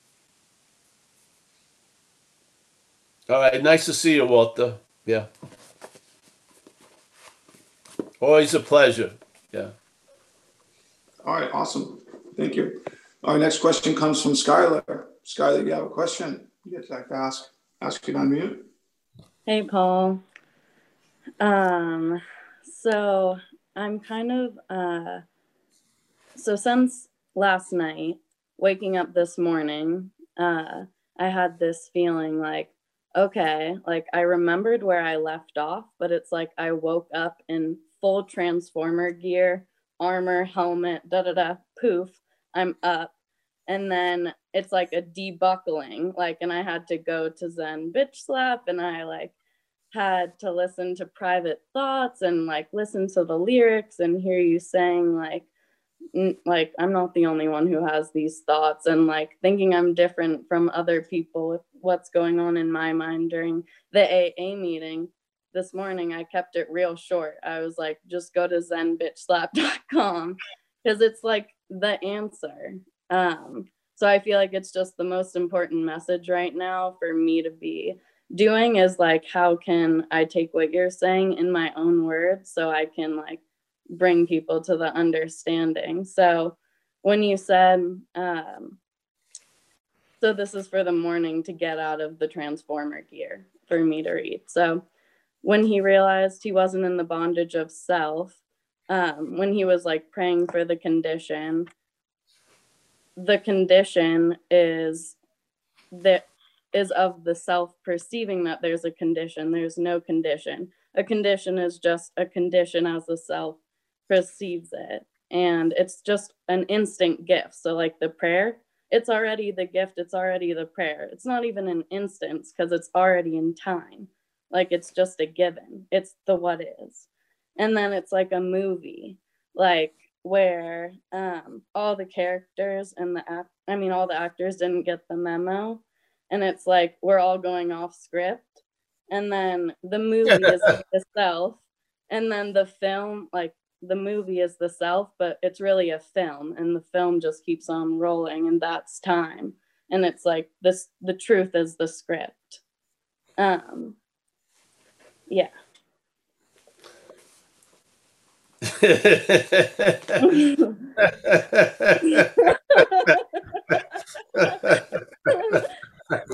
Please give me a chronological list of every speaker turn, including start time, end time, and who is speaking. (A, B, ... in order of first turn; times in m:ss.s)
0:03.3-0:05.3 A
0:08.2-0:09.7 A
0:11.2-0:18.7 B
0:19.4-0:20.2 C
0:21.4-0:25.2 C
0:26.4-0:43.1 C
0:43.7-0:49.3 C
0:49.9-0:55.4 C
0:56.1-1:23.4 C
1:23.9-1:28.8 C
1:30.2-1:34.8 C
1:35.4-1:38.4 C
1:38.9-1:41.7 C
1:43.2-1:45.2 C
1:45.9-2:18.5 C
2:19.1-2:32.6 C
2:20.3-2:20.7 A
2:33.4-2:34.0 C
2:38.6-2:40.3 A
2:40.2-2:40.8 C
2:41.0-2:42.3 A
2:42.1-2:43.2 C
2:44.4-2:44.8 A